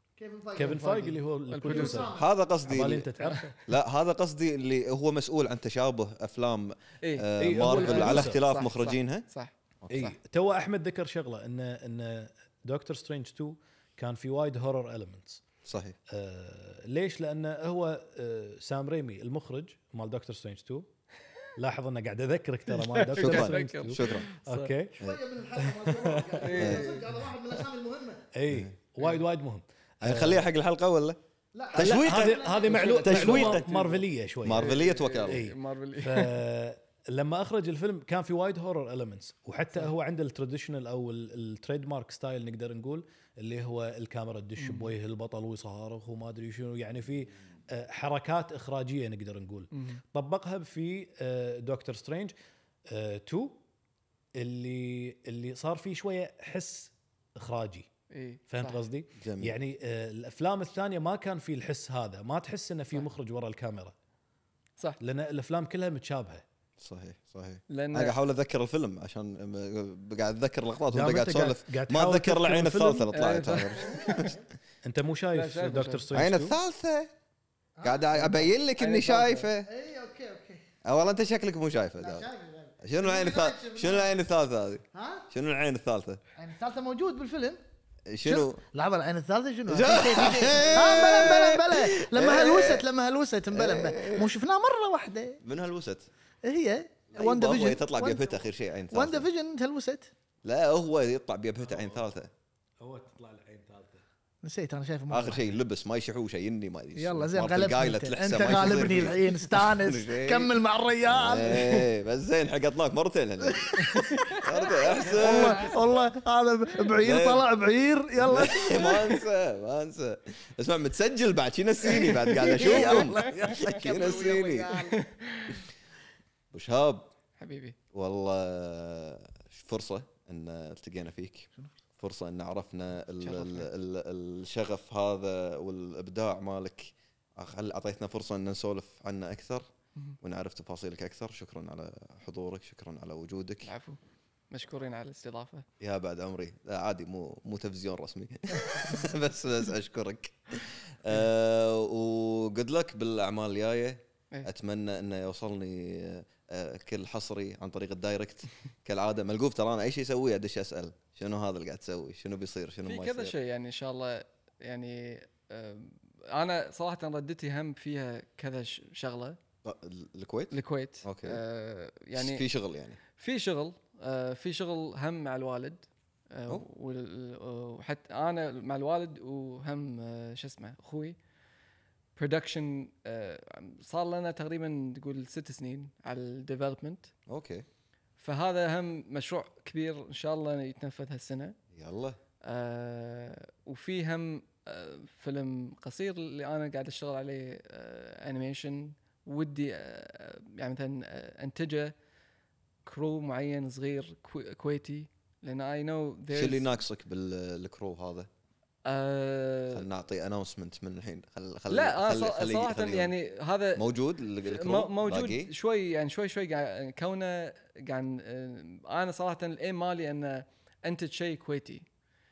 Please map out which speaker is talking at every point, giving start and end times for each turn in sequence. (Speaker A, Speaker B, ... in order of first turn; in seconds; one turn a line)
Speaker A: 0.2-2.3
Speaker B: 0.6-3.6
Speaker C: 0.7-2.0
Speaker D: 2.1-3.1
Speaker C: 3.2-3.5
Speaker D: 3.6-9.2
Speaker C: 7.0-10.2
Speaker B: 7.4-8.4
Speaker B: 9.9-15.4
Speaker D: 15.6-15.9
Speaker B: 16.1-20.9
Speaker B: 21.6-25.0
Speaker C: 22.7-24.7
Speaker D: 23.1-24.3
Speaker A: 24.9-28.2
Speaker B: 25.6-26.7
Speaker C: 26.4-26.9
Speaker D: 26.6-27.0
Speaker B: 28.3-30.4
Speaker D: 30.0-31.2
Speaker A: 31.5-33.6
Speaker D: 31.7-32.4
Speaker B: 31.7-52.3
Speaker C: 32.7-36.4
Speaker D: 33.0-33.6
Speaker D: 34.4-35.5
Speaker C: 44.6-44.9
Speaker B: 52.9-53.6
Speaker B: 54.4-57.9
Speaker C: 58.1-58.8
Speaker B: 58.5-63.9
Speaker D: 59.2-59.6
Speaker B: 65.0-66.4
Speaker D: 66.8-74.4
Speaker C: 67.7-68.2
Speaker B: 70.9-73.1
Speaker C: 73.1-74.3
Speaker A: 73.9-74.4
Speaker B: 74.8-76.5
Speaker C: 75.3-76.0
Speaker D: 76.1-77.1
Speaker A: 77.8-78.5
Speaker D: 77.8-79.7
Speaker C: 78.8-79.5
Speaker A: 79.7-80.6
Speaker D: 80.8-82.3
Speaker A: 82.0-84.1
Speaker D: 82.8-86.2
Speaker A: 84.9-85.3
Speaker A: 86.4-87.6
Speaker D: 88.1-88.6
Speaker A: 88.2-95.4
Speaker D: 89.7-92.9
Speaker D: 93.5-94.3
Speaker D: 95.4-96.1
Speaker A: 96.4-100.1
Speaker D: 97.1-99.3
Speaker D: 100.5-102.3
Speaker B: 101.6-102.1
Speaker B: 102.8-104.0
Speaker A: 104.4-105.6
Speaker D: 105.1-110.5
Speaker A: 107.0-111.9
Speaker D: 111.1-115.7
Speaker A: 113.5-114.5
Speaker C: 114.2-115.8
Speaker A: 115.0-119.1
Speaker D: 117.0-117.5
Speaker D: 118.2-124.7
Speaker A: 121.9-125.1
Speaker C: 122.4-123.8
Speaker C: 124.9-125.7
Speaker D: 126.5-127.1
Speaker C: 127.4-127.8
Speaker D: 127.9-139.7
Speaker C: 133.2-133.7
Speaker D: 140.2-143.7
Speaker C: 143.6-144.0
Speaker C: 144.5-145.7
Speaker D: 145.8-163.3
Speaker C: 162.8-169.4
Speaker D: 169.6-171.4
Speaker C: 170.5-172.4
Speaker D: 172.2-173.0
Speaker C: 173.2-181.2
Speaker C: 182.2-187.1
Speaker D: 187.3-187.7
Speaker C: 188.2-191.6
Speaker D: 191.7-192.2
Speaker C: 192.4-201.9
Speaker C: 202.9-206.7
Speaker D: 206.3-208.3
Speaker C: 208.8-209.9
Speaker D: 209.7-213.1
Speaker C: 211.7-213.8
Speaker D: 213.8-215.5
Speaker C: 214.4-221.9